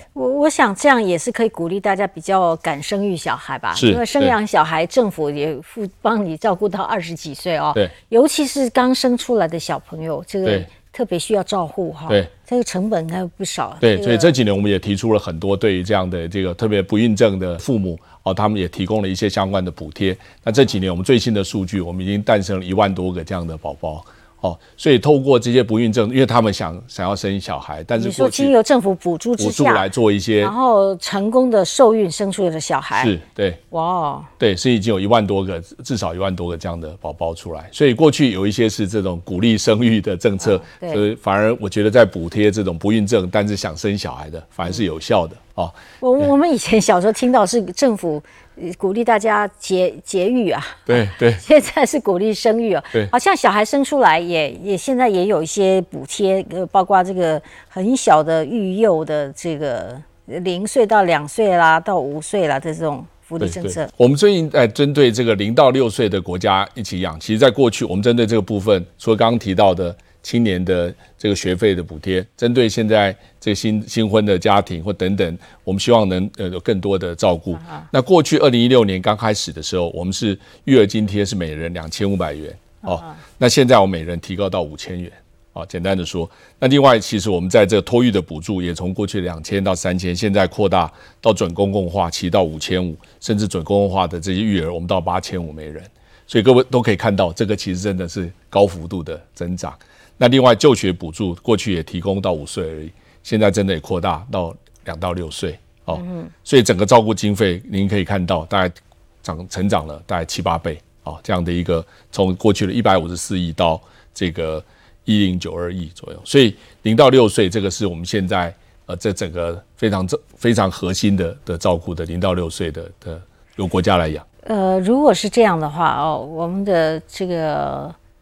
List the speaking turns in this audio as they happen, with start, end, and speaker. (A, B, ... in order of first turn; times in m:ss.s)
0:00.1-0:14.3 A
0:03.7-0:04.3 B
0:13.8-0:28.5 B
0:28.0-0:29.9 A
0:29.4-0:30.5 B
0:30.4-0:33.1 A
0:32.9-0:33.6 B
0:33.7-0:34.3 A
0:34.4-0:45.8 B
0:40.4-0:41.0 A
0:46.0-1:03.9 A
0:50.9-0:51.4 B
1:03.4-2:04.2 B
1:22.8-1:23.2 A
1:46.0-1:46.3 A
2:04.4-2:07.9 A